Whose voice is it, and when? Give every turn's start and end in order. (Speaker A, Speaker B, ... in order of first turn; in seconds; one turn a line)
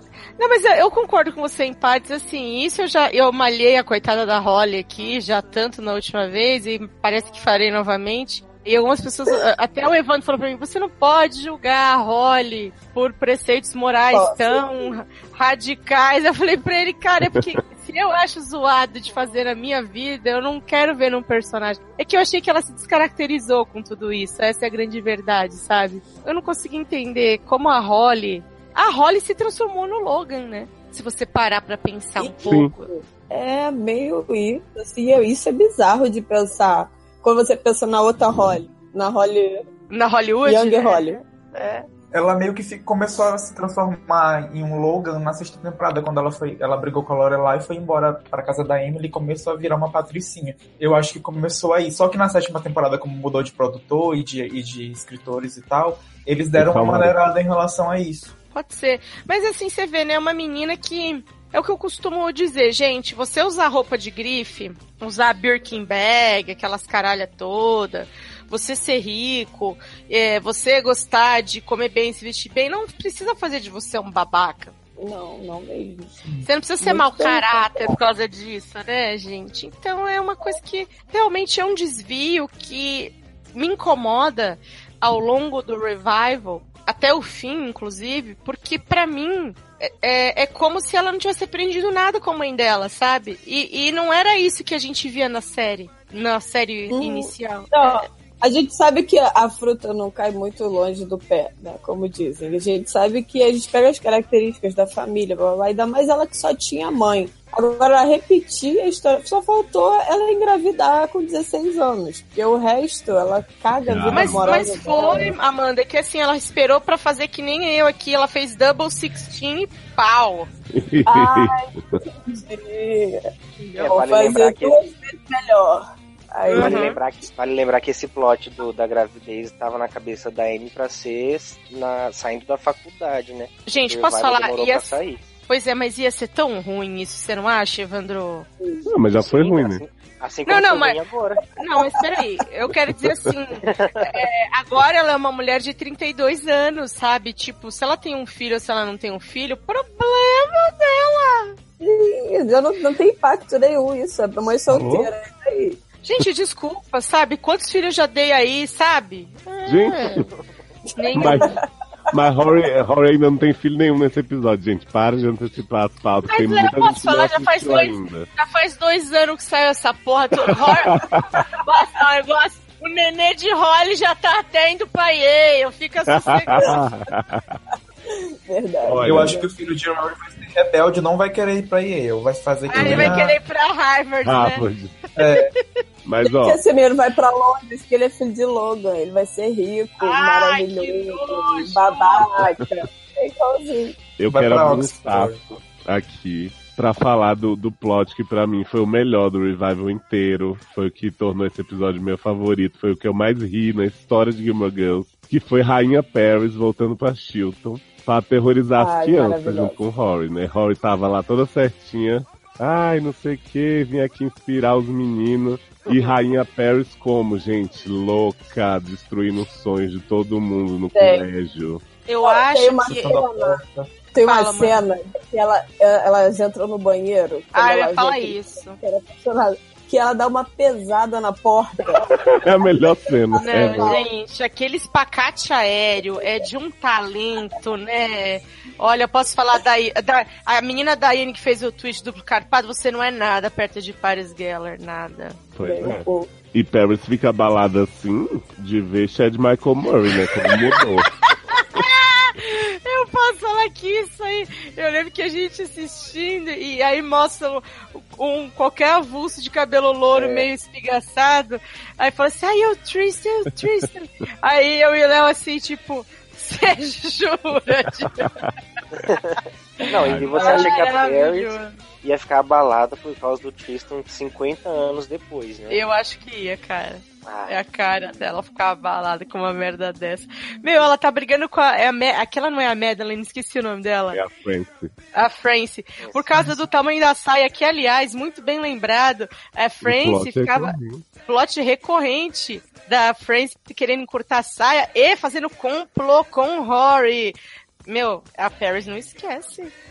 Speaker A: 0.4-32.9
Speaker B: 14.1-14.9
Speaker C: 17.2-17.6
Speaker B: 32.2-39.6
Speaker C: 32.5-32.7
Speaker A: 39.9-41.9
Speaker B: 40.5-41.2
Speaker D: 42.1-58.3
Speaker C: 56.6-57.2
Speaker A: 58.5-74.7
Speaker B: 75.0-76.2
Speaker A: 76.4-98.1
Speaker B: 76.8-78.0
Speaker B: 96.9-115.3
Speaker C: 113.9-115.2
Speaker A: 114.1-120.5
Speaker C: 120.7-122.0
Speaker B: 121.1-121.7
Speaker B: 122.3-123.3
Speaker A: 123.6-123.9
Speaker E: 123.8-124.8
Speaker B: 123.8-126.9
Speaker A: 126.5-127.0
Speaker E: 126.5-135.2
Speaker A: 133.7-138.5
Speaker B: 138.6-138.9
Speaker C: 138.9-139.8
Speaker E: 139.2-141.4
Speaker A: 140.5-141.0
Speaker A: 141.6-151.6
Speaker B: 141.8-142.0
Speaker E: 143.7-144.1
Speaker B: 151.8-155.8
Speaker D: 154.7-155.1
Speaker A: 156.0-160.2
Speaker C: 159.7-160.3
Speaker A: 161.0-161.5
Speaker B: 161.1-161.5
Speaker C: 161.2-161.5
Speaker C: 162.1-168.3
Speaker A: 166.3-171.1
Speaker C: 170.5-171.5
Speaker A: 171.6-176.8
Speaker C: 176.1-177.6
Speaker B: 176.6-176.8
Speaker B: 178.1-179.5
Speaker C: 178.8-179.4
Speaker D: 179.0-183.4
Speaker A: 182.7-184.7
Speaker C: 182.7-183.2
Speaker C: 184.2-185.0
Speaker D: 185.2-185.5
Speaker A: 185.2-185.6
Speaker C: 186.1-186.6
Speaker B: 186.2-194.0
Speaker A: 190.0-192.4
Speaker C: 194.2-221.8
Speaker D: 194.3-195.4
Speaker B: 208.8-209.8
Speaker B: 220.9-221.2
Speaker A: 222.1-223.2
Speaker B: 222.2-223.6
Speaker D: 222.9-223.9
Speaker B: 224.1-234.0
Speaker A: 224.2-224.8
Speaker A: 227.5-228.8
Speaker C: 232.0-234.0
Speaker A: 233.4-245.4
Speaker B: 236.1-236.5
Speaker C: 245.6-251.1
Speaker B: 245.6-246.3
Speaker A: 251.3-268.3
Speaker E: 260.1-260.4
Speaker C: 268.2-268.5
Speaker E: 269.0-275.8
Speaker C: 270.0-270.4
Speaker A: 270.1-271.8
Speaker B: 270.4-270.7
Speaker A: 275.7-284.2
Speaker E: 277.2-277.6
Speaker C: 284.1-284.9
Speaker A: 285.1-299.7
Speaker E: 286.0-286.3
Speaker C: 289.8-291.1